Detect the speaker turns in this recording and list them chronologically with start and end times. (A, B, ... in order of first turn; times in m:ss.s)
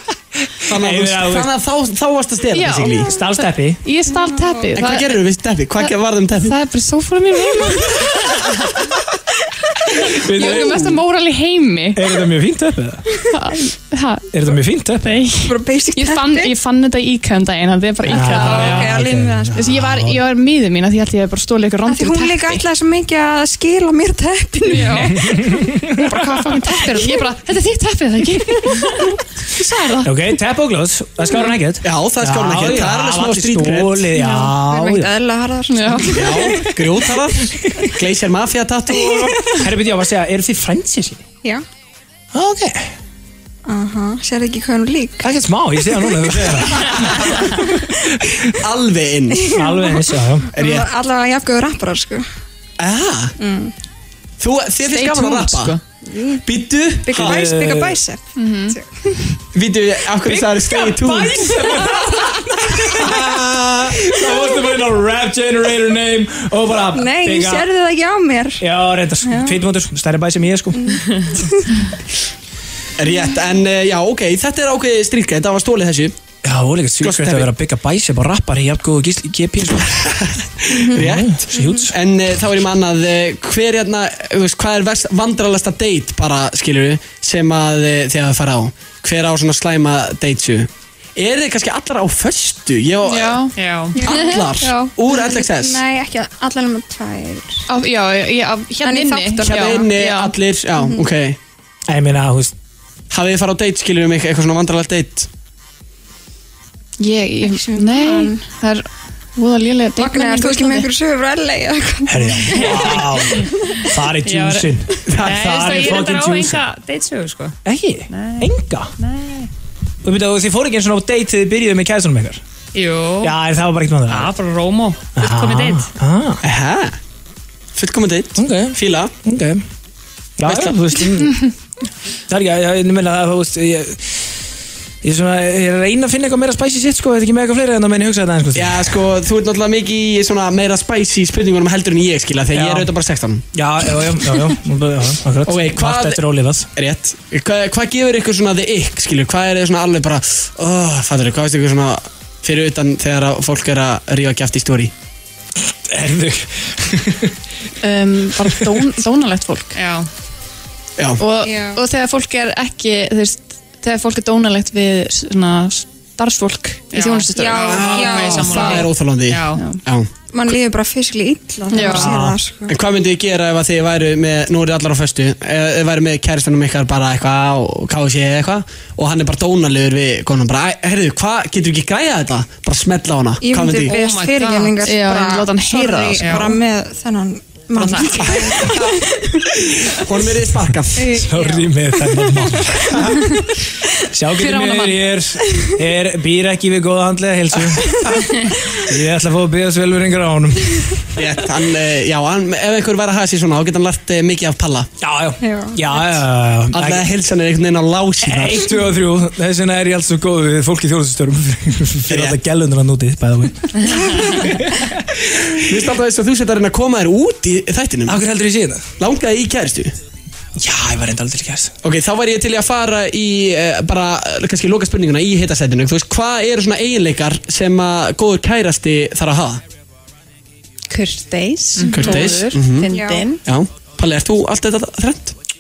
0:00.5-0:01.5 A
0:00.7-0:03.1 B
0:02.5-0:05.2 C
0:03.1-0:03.8 A
0:04.1-0:04.7 D
0:04.7-0:06.6 B
0:05.8-0:08.5 C
0:10.0-0:11.0 A
0:10.1-0:12.0 C
0:12.0-0:13.1 A
0:13.3-0:14.5 C
0:14.3-0:15.2 A
0:15.0-0:19.0 C
0:15.4-0:16.5 D
0:18.1-0:19.7 D
0:18.1-0:20.2 A
0:19.6-0:22.6 C
0:21.9-0:25.2 D
0:24.7-0:30.2 C
0:25.1-0:26.0 A
0:26.4-0:27.2 D
0:30.0-0:35.1 A
0:31.8-0:34.1 B
0:34.2-0:34.5 C
0:34.3-0:36.7 D
0:35.7-0:36.7 C
0:36.1-0:39.4 B
0:39.0-0:39.6 D
0:39.4-0:41.2 A
0:42.3-0:42.9 A
0:43.7-0:45.3 D
0:45.2-0:48.5 A
0:48.5-0:49.6 B
0:49.4-0:52.2 D
0:49.5-0:50.5 A
0:50.6-0:50.9 B
0:52.8-0:53.4 B
0:53.4-0:53.7 D
0:54.4-0:55.8 B
0:54.8-0:55.8 C
0:56.0-0:56.4 D
0:56.5-0:57.4 B
0:57.0-0:59.2 D
0:57.1-0:58.0 A
0:58.4-0:58.8 C
0:59.5-1:01.6 B
1:00.3-1:07.7 A
1:02.9-1:03.9 B
1:06.9-1:08.6 D
1:08.6-1:11.1 A
1:09.2-1:09.6 D
1:10.8-1:11.8 D
1:13.0-1:16.2 B
1:16.4-1:20.0 A
1:17.0-1:17.5 B
1:19.8-1:33.5 B
1:20.7-1:21.8 D
1:20.9-1:21.9 A
1:33.0-1:34.9 C
1:33.6-1:34.0 E
1:34.0-1:34.4 D
1:34.0-1:35.8 B
1:35.2-1:37.6 D
1:37.7-1:40.4 C
1:38.8-1:39.9 D
1:39.5-1:41.4 B
1:41.9-1:42.5 A
1:43.1-1:45.3 B
1:47.0-1:50.9 C
1:47.4-1:48.4 D
1:50.0-1:53.8 D
1:52.1-1:56.6 A
1:54.2-1:54.7 E
1:55.1-1:55.6 B
1:55.2-1:57.6 E
1:57.6-1:58.9 A
1:58.1-1:59.5 E
2:00.0-2:02.4 A
2:02.7-2:03.3 E
2:03.2-2:04.3 A
2:04.1-2:05.9 E
2:05.2-2:06.4 A
2:06.4-2:07.0 B
2:07.8-2:09.1 B
2:08.4-2:09.6 A
2:10.4-2:11.4 A
2:10.4-2:10.8 B
2:12.3-2:14.0 A
2:15.0-2:19.0 A
2:18.6-2:23.4 B
2:22.5-2:22.9 A
2:23.5-2:26.7 A
2:25.5-2:26.2 B
2:26.8-2:34.9 B
2:35.7-2:37.3 A
2:37.8-2:39.8 C
2:38.4-2:38.7 A
2:39.8-2:40.1 E
2:41.2-2:48.7 C
2:41.4-2:41.8 D
2:46.9-2:49.6 E
2:47.4-2:48.9 D
2:47.6-2:50.1 B
2:49.6-2:49.8 C
2:50.3-2:52.8 D
2:51.7-2:52.2 C
2:51.9-2:52.4 A
2:52.7-3:03.9 B
3:03.4-3:09.5 D
3:03.9-3:04.8 E
3:04.8-3:06.6 C
3:06.2-3:06.5 E
3:07.8-3:08.5 E
3:09.9-3:11.1 B
3:11.0-3:12.5 D
3:11.1-3:13.2 A
3:14.0-3:18.0 A
3:14.3-3:15.0 C
3:17.5-3:18.4 B
3:18.7-3:21.0 A
3:21.2-3:24.9 B
3:25.0-3:27.1 A
3:25.4-3:26.2 D
3:26.7-3:28.7 B
3:28.2-3:35.6 A
3:32.1-3:32.4 B
3:35.6-3:38.2 B
3:38.1-3:38.8 A
3:39.0-3:39.9 B
3:40.6-3:41.7 A
3:41.8-3:49.6 B
3:50.9-3:53.4 C
3:51.9-3:52.3 D
3:51.9-3:52.9 B
3:52.8-3:53.3 D
3:53.4-3:55.4 B